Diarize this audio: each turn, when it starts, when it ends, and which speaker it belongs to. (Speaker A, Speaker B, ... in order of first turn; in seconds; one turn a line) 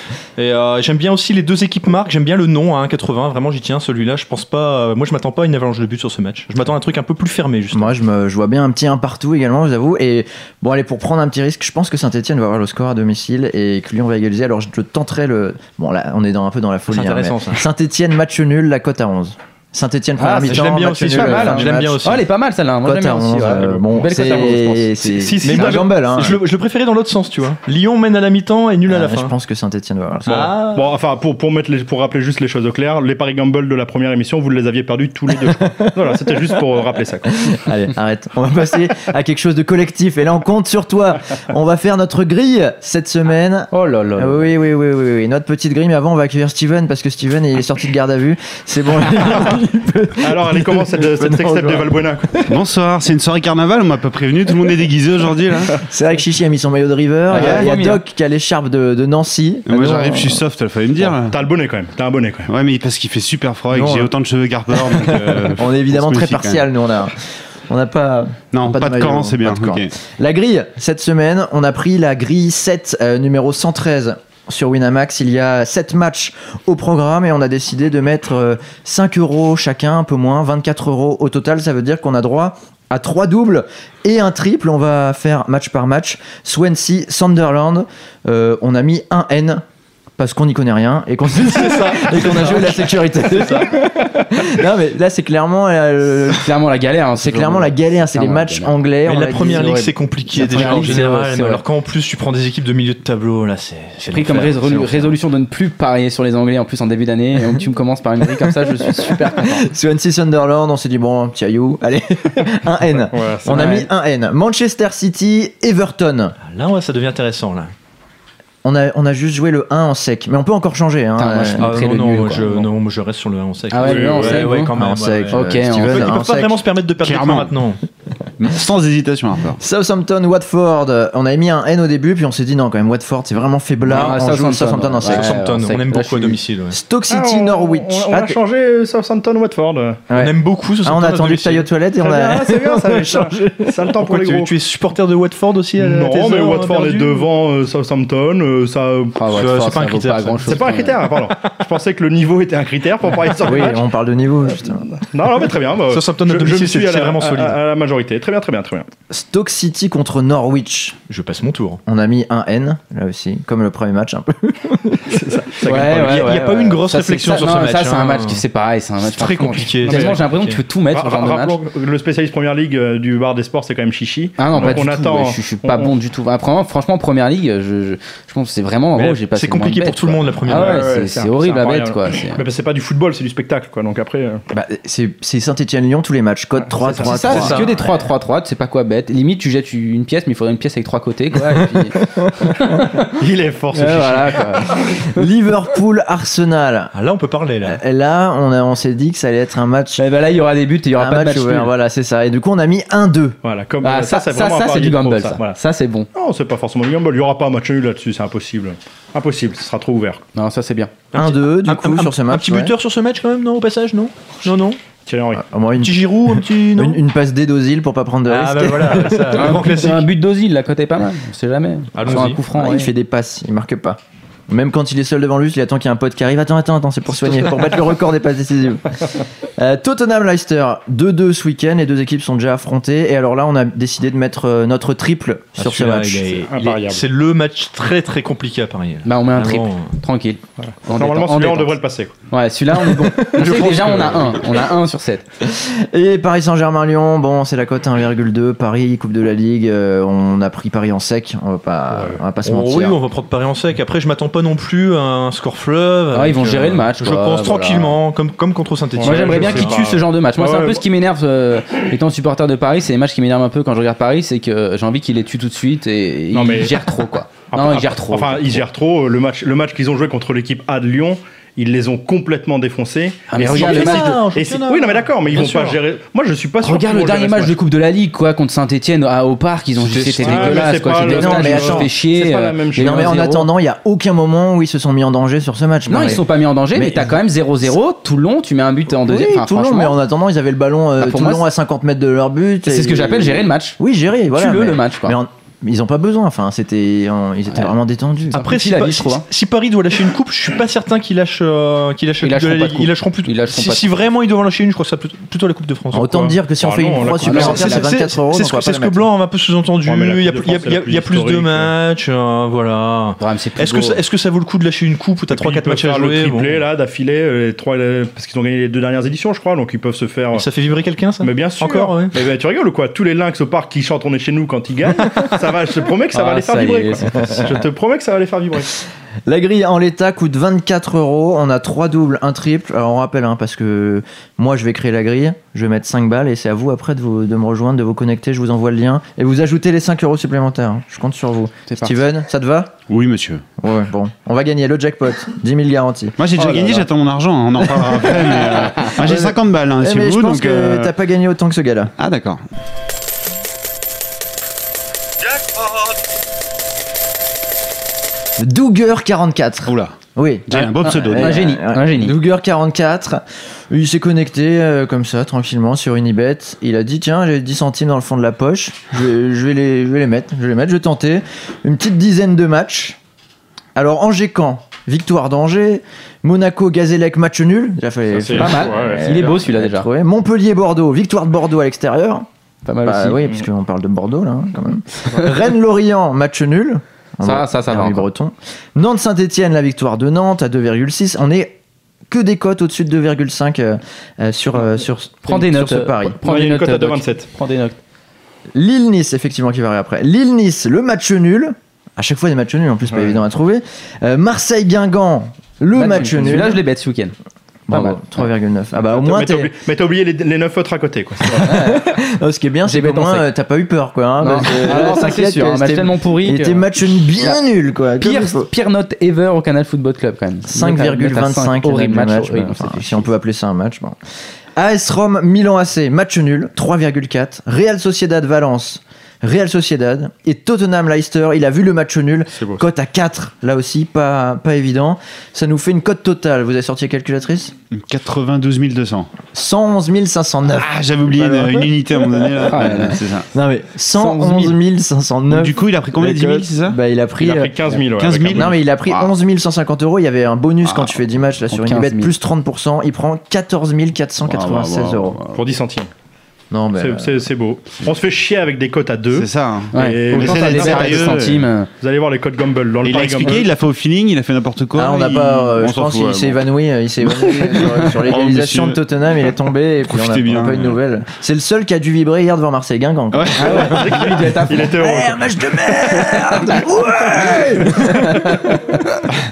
Speaker A: 0.4-7.9
Speaker B: 7.7-22.1
Speaker A: 16.9-17.6
Speaker C: 20.2-25.2
Speaker A: 20.5-22.2
Speaker B: 22.8-26.4
Speaker D: 25.1-25.9
Speaker A: 25.4-29.3
Speaker B: 28.9-30.5
Speaker A: 30.2-30.9
Speaker D: 30.3-37.5
Speaker B: 35.3-36.6
Speaker B: 37.2-52.0
Speaker C: 43.7-44.5
Speaker D: 49.2-49.6
Speaker D: 50.2-52.6
Speaker E: 52.5-55.8
Speaker B: 55.7-60.4
Speaker C: 57.3-58.0
Speaker E: 59.7-61.4
Speaker D: 61.3-62.5
Speaker E: 62.5-66.6
Speaker B: 63.7-64.1
Speaker B: 64.7-89.6
Speaker E: 68.5-69.9
Speaker B: 90.2-96.5
Speaker A: 91.3-93.8
Speaker C: 96.3-98.7
Speaker B: 97.2-99.8
Speaker A: 99.0-105.1
Speaker C: 99.5-101.6
Speaker B: 100.4-101.0
Speaker C: 104.0-109.7
Speaker B: 108.2-116.3
Speaker D: 113.1-113.7
Speaker C: 113.5-113.9
Speaker A: 116.4-117.7
Speaker B: 118.6-121.7
Speaker C: 121.2-122.5
Speaker A: 121.6-127.8
Speaker C: 123.7-124.7
Speaker D: 123.8-124.5
Speaker B: 124.7-126.6
Speaker C: 125.3-126.2
Speaker E: 127.0-127.5
Speaker E: 128.4-129.6
Speaker B: 129.6-135.3
Speaker C: 133.9-136.4
Speaker A: 135.1-136.8
Speaker B: 136.7-138.4
Speaker D: 137.1-140.0
Speaker B: 140.1-143.9
Speaker A: 140.1-141.7
Speaker D: 142.0-144.5
Speaker A: 144.0-147.3
Speaker D: 145.8-149.2
Speaker C: 149.2-151.1
Speaker A: 149.3-150.8
Speaker D: 150.5-153.8
Speaker B: 153.4-154.8
Speaker D: 154.9-158.9
Speaker A: 155.9-157.6
Speaker B: 159.1-161.0
Speaker A: 161.1-161.8
Speaker B: 161.9-165.2
Speaker D: 165.1-166.2
Speaker C: 165.6-171.6
Speaker A: 165.7-168.4
Speaker A: 169.0-170.6
Speaker D: 169.8-170.2
Speaker D: 170.9-175.9
Speaker C: 174.4-182.4
Speaker A: 179.0-180.9
Speaker D: 180.5-184.4
Speaker B: 184.5-187.7
Speaker D: 186.6-187.4
Speaker C: 187.0-193.1
Speaker A: 187.2-187.9
Speaker D: 193.2-195.0
Speaker C: 193.7-194.9
Speaker B: 194.8-196.9
Speaker A: 196.9-197.8
Speaker B: 197.6-200.0
Speaker C: 200.0-201.7
Speaker B: 200.9-203.4
Speaker D: 203.4-205.6
Speaker C: 203.8-206.1
Speaker D: 206.1-210.2
Speaker C: 210.3-210.9
Speaker A: 211.1-214.8
Speaker B: 211.1-212.7
Speaker D: 215.1-215.4
Speaker B: 215.3-216.1
Speaker A: 215.8-217.0
Speaker B: 216.7-219.6
Speaker A: 218.3-220.1
Speaker C: 219.3-222.9
Speaker A: 221.9-222.4
Speaker B: 222.1-236.4
Speaker A: 235.6-239.9
Speaker D: 236.5-237.0
Speaker C: 239.0-241.7
Speaker D: 240.7-242.1
Speaker C: 242.3-245.2
Speaker B: 242.8-243.9
Speaker A: 243.6-244.3
Speaker B: 245.4-253.0
Speaker D: 251.9-252.2
Speaker A: 252.4-259.8
Speaker C: 256.1-258.0
Speaker D: 259.0-260.8
Speaker C: 259.0-268.6
Speaker D: 266.3-266.8
Speaker D: 267.5-277.6
Speaker C: 273.3-274.2
Speaker A: 273.4-275.8
Speaker C: 276.6-283.5
Speaker D: 280.2-283.1
Speaker B: 280.2-281.9
Speaker B: 282.8-287.7
Speaker C: 285.9-289.9
Speaker B: 288.9-298.4
Speaker C: 291.0-291.4
Speaker C: 292.6-293.8
Speaker C: 294.3-295.2
Speaker C: 298.3-299.2
Speaker A: 298.3-306.1
Speaker C: 302.2-303.9
Speaker B: 305.9-309.0
Speaker D: 306.0-307.6
Speaker A: 307.2-316.6
Speaker C: 307.2-307.9
Speaker D: 309.8-311.7
Speaker C: 313.2-314.0
Speaker D: 315.3-320.4
Speaker A: 320.3-322.2
Speaker D: 321.2-328.7
Speaker C: 326.1-327.1
Speaker B: 327.1-327.6
Speaker B: 329.3-342.8
Speaker C: 341.7-341.9
Speaker E: 342.9-343.4
Speaker B: 343.6-346.8
Speaker E: 346.2-350.9
Speaker B: 347.6-351.9
Speaker E: 352.0-352.4
Speaker B: 358.4-373.0
Speaker E: 359.6-359.9
Speaker E: 360.5-361.4
Speaker C: 360.5-362.2
Speaker B: 373.8-382.3
Speaker D: 378.1-379.1
Speaker C: 378.3-379.9
Speaker C: 382.6-383.3
Speaker B: 382.8-391.6
Speaker C: 387.2-388.1
Speaker B: 392.1-396.2
Speaker C: 395.2-397.8
Speaker D: 396.2-397.3
Speaker B: 398.5-406.6
Speaker D: 402.9-403.2
Speaker C: 405.7-407.1
Speaker B: 407.7-409.5
Speaker C: 407.7-408.0
Speaker D: 408.9-411.5
Speaker B: 411.2-418.5
Speaker C: 411.3-411.8
Speaker C: 412.6-413.3
Speaker C: 414.2-417.4
Speaker C: 418.0-423.1
Speaker B: 420.5-424.0
Speaker B: 424.6-437.5
Speaker E: 437.7-439.1
Speaker B: 439.3-441.7
Speaker E: 440.5-443.3
Speaker C: 442.5-443.0
Speaker B: 442.5-442.8
Speaker B: 443.3-447.5
Speaker C: 444.0-444.6
Speaker E: 445.3-446.8
Speaker D: 447.2-448.5
Speaker E: 447.9-449.1
Speaker B: 448.3-455.2
Speaker C: 451.5-452.1
Speaker E: 454.2-455.4
Speaker D: 455.3-455.9
Speaker B: 456.5-457.2
Speaker D: 456.8-461.3
Speaker E: 459.1-461.4
Speaker C: 459.7-461.7
Speaker D: 461.8-463.4
Speaker E: 462.8-466.4
Speaker B: 464.7-473.8
Speaker E: 467.2-468.8
Speaker E: 469.9-470.8
Speaker E: 473.1-473.7
Speaker C: 473.3-474.7
Speaker D: 473.6-476.2
Speaker B: 474.7-478.9